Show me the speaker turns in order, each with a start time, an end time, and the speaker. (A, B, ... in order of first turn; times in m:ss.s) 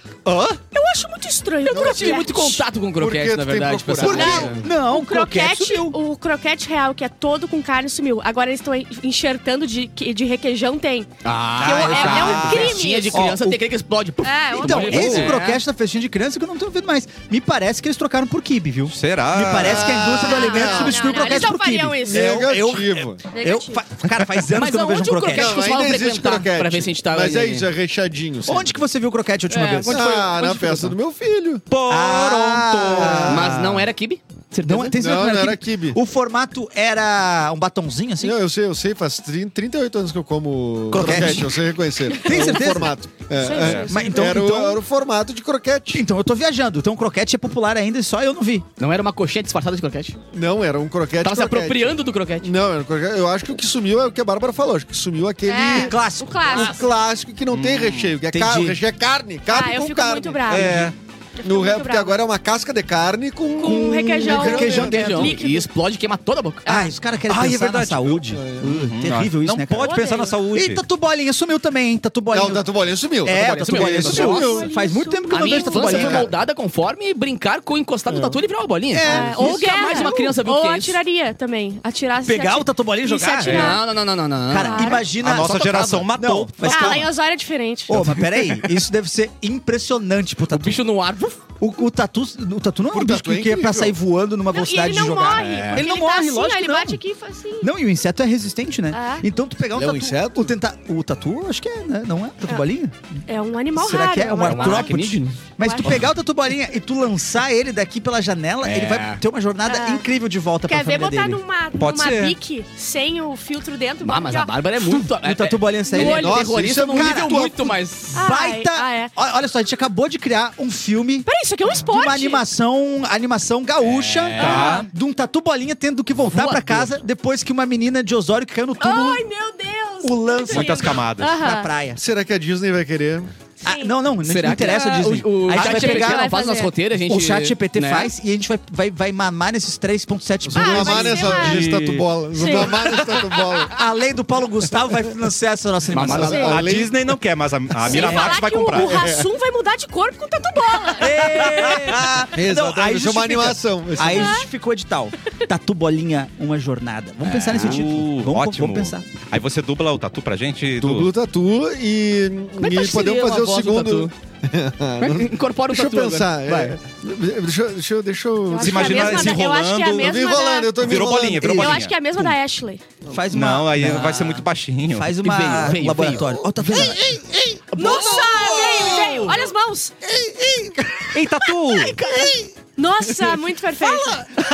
0:00.2-0:00.6 A
0:00.7-0:02.6 B
0:01.7-0:02.3 C
0:01.7-0:04.7 D
0:02.8-0:04.7 C
0:04.0-0:13.3 B
0:04.1-0:06.0 E
0:11.2-0:15.6 D
0:11.6-0:12.8 A
0:11.7-0:12.5 E
0:13.1-0:13.6 E
0:14.2-0:15.3 B
0:14.6-0:25.6 E
0:14.8-0:15.4 A
0:18.9-0:20.1 A
0:19.5-0:21.2 C
0:20.1-0:22.3 B
0:22.0-0:23.2 C
0:23.3-0:23.8 B
0:24.5-0:27.7 D
0:25.2-0:28.8 C
0:28.4-0:30.9 E
0:29.5-0:30.1 D
0:29.9-0:31.6 C
0:31.7-0:33.3 A
0:31.8-0:33.8 E
0:32.9-0:33.6 C
0:33.2-0:35.0 D
0:34.6-0:38.4 E
0:35.0-0:36.0 C
0:38.2-0:46.0 C
0:40.9-0:43.0 E
0:43.3-0:44.3 B
0:43.5-0:43.9 A
0:43.6-0:44.8 E
0:45.9-0:48.7 E
0:48.8-0:50.2 D
0:50.3-1:00.9 C
0:51.2-0:52.5 D
0:55.4-0:56.8 B
0:55.7-0:56.7 E
0:57.5-0:58.1 A
0:58.3-0:58.8 E
0:59.4-1:02.2 B
1:00.5-1:00.9 A
1:01.4-1:05.3 C
1:03.6-1:05.7 B
1:04.2-1:06.6 D
1:04.4-1:05.2 E
1:06.7-1:06.9 B
1:06.7-1:16.3 E
1:07.3-1:10.8 A
1:08.3-1:08.7 C
1:09.8-1:10.3 B
1:12.3-1:14.7 C
1:13.5-1:14.5 D
1:14.0-1:16.1 B
1:15.3-1:21.0 D
1:15.8-1:16.3 C
1:18.1-1:18.4 C
1:18.9-1:20.1 E
1:19.0-1:23.8 B
1:22.2-1:23.8 E
1:23.4-1:25.0 D
1:24.5-1:27.1 E
1:24.6-1:25.2 B
1:25.1-1:27.1 A
1:26.6-1:28.0 B
1:27.9-1:30.8 E
1:28.0-1:28.4 D
1:30.5-1:31.4 D
1:31.6-1:37.0 E
1:32.9-1:34.0 C
1:34.5-1:37.7 B
1:35.3-1:35.8 D
1:37.6-1:43.2 E
1:38.9-1:39.2 B
1:39.7-1:40.5 C
1:43.3-1:45.0 B
1:43.7-1:51.4 E
1:44.4-1:46.1 D
1:45.6-1:46.0 B
1:48.6-1:49.2 D
1:49.6-1:50.1 B
1:50.6-1:54.6 B
1:51.8-1:52.4 A
1:54.0-1:58.2 D
1:55.2-1:57.5 E
1:55.9-1:56.3 B
1:56.1-1:57.8 C
1:58.1-1:59.1 B
1:58.1-2:09.2 E
2:01.2-2:02.4 B
2:03.8-2:04.8 D
2:04.4-2:04.9 A
2:04.4-2:04.8 B
2:06.2-2:07.0 D
2:08.8-2:11.7 B
2:10.0-2:12.0 E
2:10.5-2:11.3 A
2:12.0-2:13.3 C
2:13.6-2:13.9 B
2:13.6-2:16.3 E
2:14.2-2:18.1 D
2:15.5-2:16.7 B
2:17.1-2:21.4 E
2:20.4-2:23.8 C
2:20.5-2:21.7 B
2:21.3-2:22.1 D
2:22.3-2:23.0 B
2:23.7-2:26.6 E
2:25.9-2:26.6 D
2:26.0-2:27.0 C
2:26.2-2:26.5 B
2:26.4-2:29.1 A
2:27.8-2:32.0 B
2:27.9-2:28.4 E
2:28.8-2:29.3 C
2:31.0-2:39.0 E
2:32.3-2:34.4 C
2:34.0-2:34.5 B
2:37.2-2:37.8 D
2:37.5-2:41.1 A
2:40.8-2:49.4 C
2:42.6-2:44.1 D
2:45.0-2:46.8 D
2:48.5-2:50.9 B
2:48.6-2:50.0 A
2:50.0-2:51.8 C
2:50.8-2:52.3 A
2:51.5-2:52.9 B
2:53.0-2:57.2 E
2:53.3-2:55.2 A
2:55.2-2:56.3 D
2:56.1-2:59.4 C
2:57.7-2:59.9 B
2:58.7-2:59.2 A
3:00.0-3:01.2 C
3:01.1-3:02.0 A
3:01.7-3:04.4 B